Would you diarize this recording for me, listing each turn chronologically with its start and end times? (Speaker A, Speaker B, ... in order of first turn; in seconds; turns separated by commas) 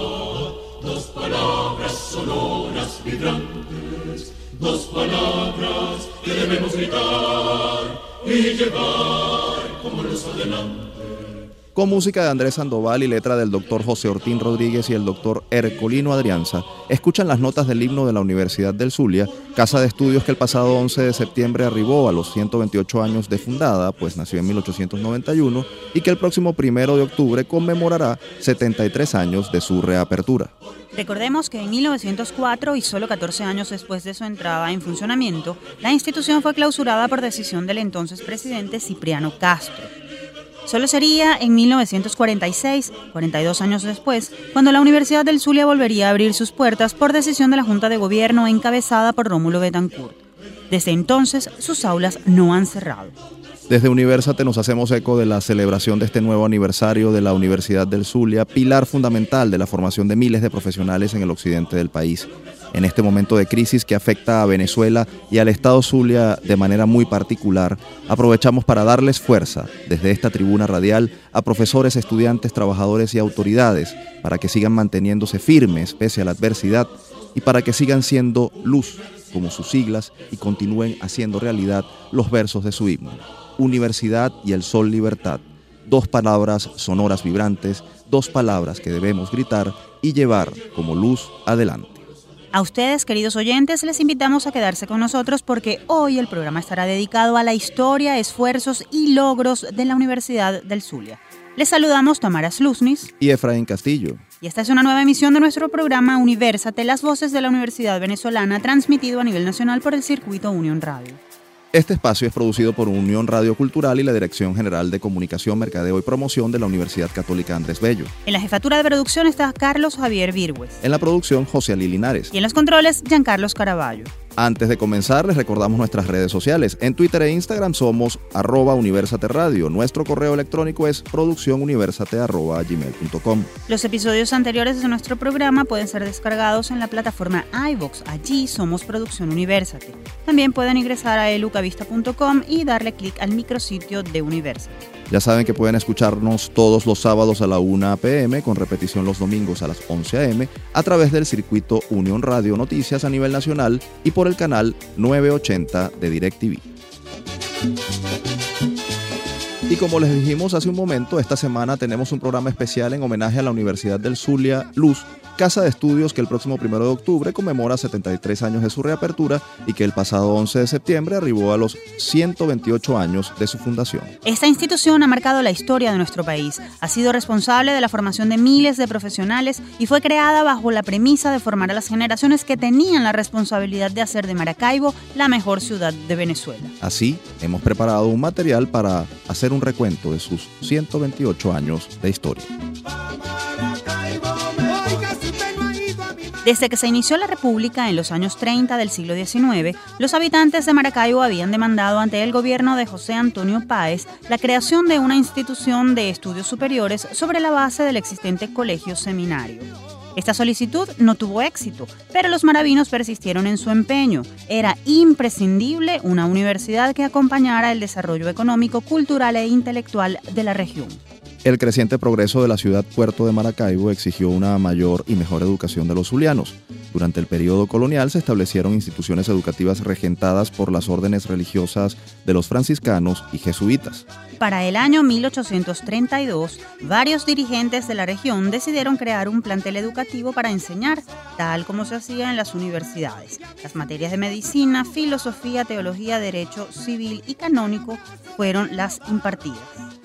Speaker A: 0.8-2.3, Speaker B: 11.7-30.5, Speaker C: 30.9-39.9, Speaker C: 40.6-53.1, Speaker B: 53.7-92.0, Speaker C: 92.5-103.1, Speaker B: 103.2-104.2, Speaker C: 104.4-111.2, Speaker B: 111.7-118.1, Speaker C: 118.2-120.8, Speaker B: 120.8-122.3, Speaker C: 122.3-124.1, Speaker B: 124.3-133.5, Speaker C: 133.7-144.9, Speaker B: 145.1-156.7, Speaker B: 159.7-174.1, Speaker C: 174.2-186.7, Speaker B: 186.8-192.5, Speaker A: 194.1-196.1, Speaker C: 196.4-221.0, Speaker B: 221.4-234.1, Speaker C: 234.4-249.9